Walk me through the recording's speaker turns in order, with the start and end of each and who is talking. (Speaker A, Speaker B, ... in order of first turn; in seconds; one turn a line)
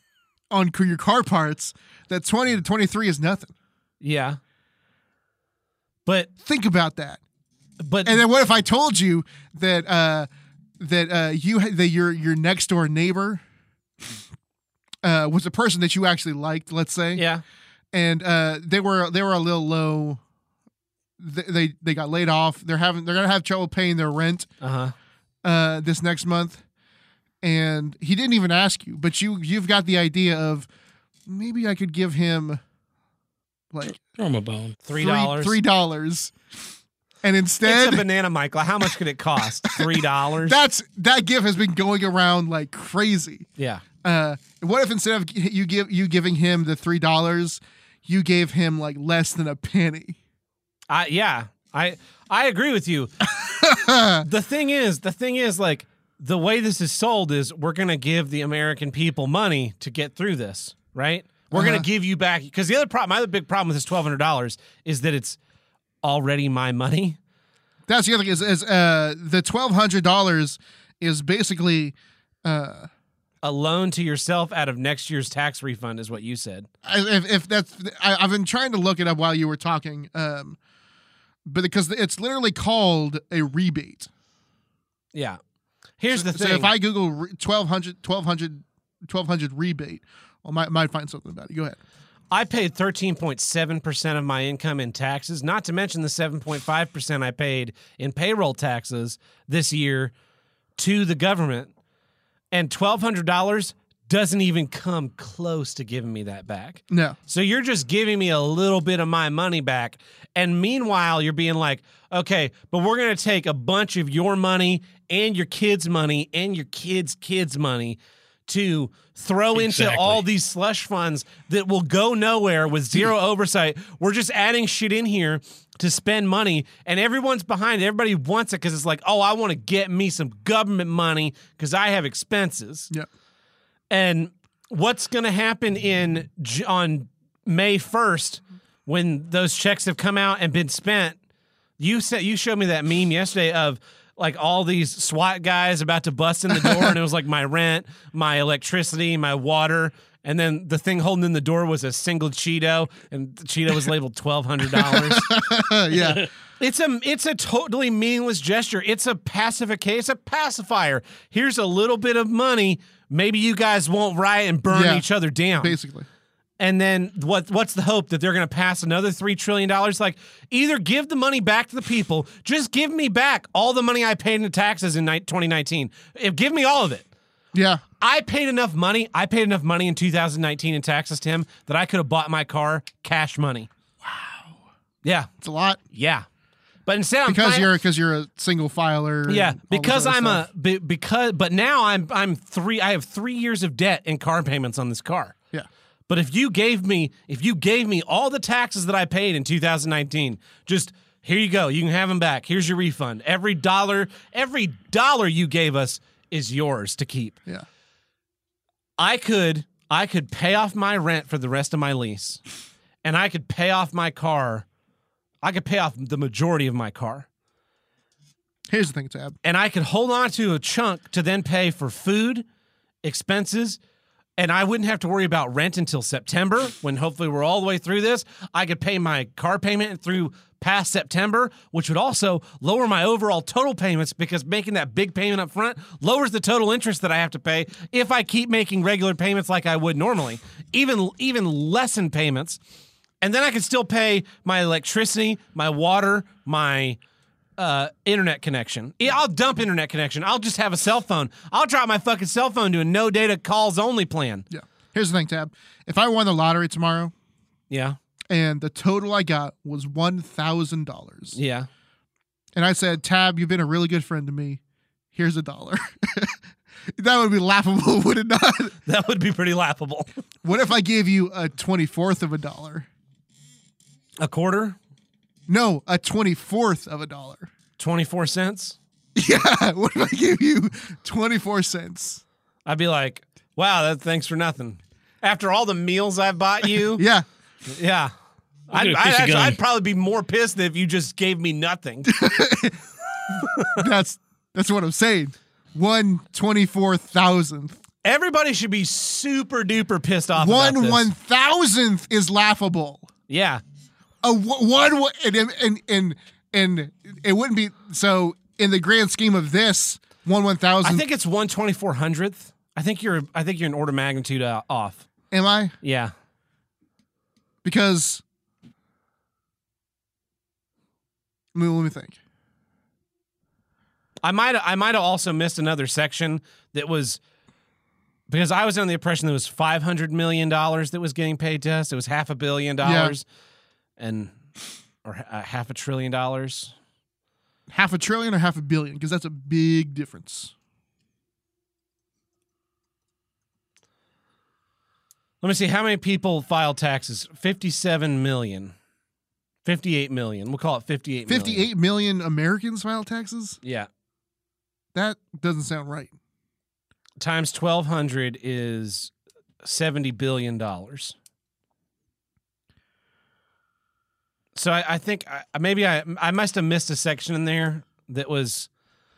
Speaker A: 0.5-3.5
Speaker B: 4.0-4.4
Speaker B: 6.0-6.3
Speaker A: 6.4-7.2
Speaker B: 7.8-8.2
Speaker A: 8.0-10.3
Speaker A: 10.8-13.4
Speaker A: 15.0-17.2
Speaker B: 17.1-17.4
Speaker A: 17.9-20.2
Speaker A: 21.2-24.5
Speaker B: 24.6-24.9
Speaker A: 25.4-26.6
Speaker A: 27.4-30.7
Speaker A: 31.3-32.6
Speaker A: 33.7-34.0
Speaker C: 33.9-34.8
Speaker B: 34.8-35.6
Speaker A: 34.9-36.3
Speaker A: 37.2-38.0
Speaker B: 37.6-40.6
Speaker A: 39.6-43.5
Speaker B: 43.6-43.8
Speaker A: 44.0-50.2
Speaker B: 50.9-53.1
Speaker A: 53.4-54.2
Speaker B: 54.2-65.4
Speaker A: 61.5-61.9
Speaker B: 66.0-67.2
Speaker A: 67.9-72.9
Speaker B: 73.4-76.7
Speaker A: 76.8-80.6
Speaker A: 81.4-84.1
Speaker B: 85.1-85.4
Speaker B: 86.0-86.7
Speaker A: 86.1-91.8
Speaker B: 92.3-100.1
Speaker B: 100.8-101.7
Speaker B: 102.5-132.9
Speaker A: 106.9-107.2
Speaker C: 119.5-120.2
Speaker B: 133.9-141.2
Speaker B: 141.8-155.3
Speaker A: 146.5-146.9
Speaker A: 154.7-156.2
Speaker B: 156.6-165.8
Speaker A: 164.7-166.1
Speaker B: 166.6-177.1
Speaker A: 177.5-177.8
Speaker B: 178.0-183.7
Speaker A: 184.0-184.6
Speaker B: 185.0-185.3
Speaker A: 185.4-185.8
Speaker B: 185.9-186.2
Speaker B: 186.9-187.7
Speaker A: 187.2-190.4
Speaker B: 189.3-195.3
Speaker B: 196.1-207.4
Speaker B: 209.0-212.4
Speaker B: 213.0-214.7
Speaker B: 215.4-217.2
Speaker A: 218.7-219.3
Speaker B: 219.4-222.4
Speaker B: 223.0-223.8
Speaker B: 224.4-242.6
Speaker B: 243.2-247.0
Speaker B: 247.6-254.5
Speaker A: 254.5-257.1
Speaker B: 257.7-258.0
Speaker A: 258.3-261.4
Speaker B: 261.3-261.7
Speaker A: 262.6-264.6
Speaker A: 265.1-266.4
Speaker A: 266.9-268.8
Speaker B: 268.9-270.1
Speaker A: 270.4-272.9
Speaker B: 274.2-274.8
Speaker A: 275.5-277.5
Speaker B: 277.8-278.8
Speaker A: 279.1-282.2
Speaker B: 282.6-287.0
Speaker A: 286.9-287.2
Speaker B: 287.7-288.1
Speaker B: 288.7-292.1
Speaker C: 288.7-289.6
Speaker A: 292.0-297.8
Speaker B: 293.4-293.8
Speaker B: 298.0-301.1
Speaker A: 300.3-303.1
Speaker B: 303.3-303.6
Speaker A: 304.2-311.1
Speaker B: 310.8-315.1
Speaker A: 315.3-315.7
Speaker B: 315.8-316.1
Speaker A: 317.6-318.2
Speaker A: 321.5-322.2
Speaker B: 324.2-327.2
Speaker B: 328.3-333.2
Speaker A: 332.8-333.1
Speaker B: 334.0-334.3
Speaker B: 335.0-336.7
Speaker A: 337.7-340.5
Speaker B: 345.4-348.7
Speaker B: 349.6-351.7
Speaker A: 351.3-353.6
Speaker B: 353.6-353.9
Speaker A: 354.9-356.1
Speaker B: 357.2-361.1
Speaker B: 364.5-368.7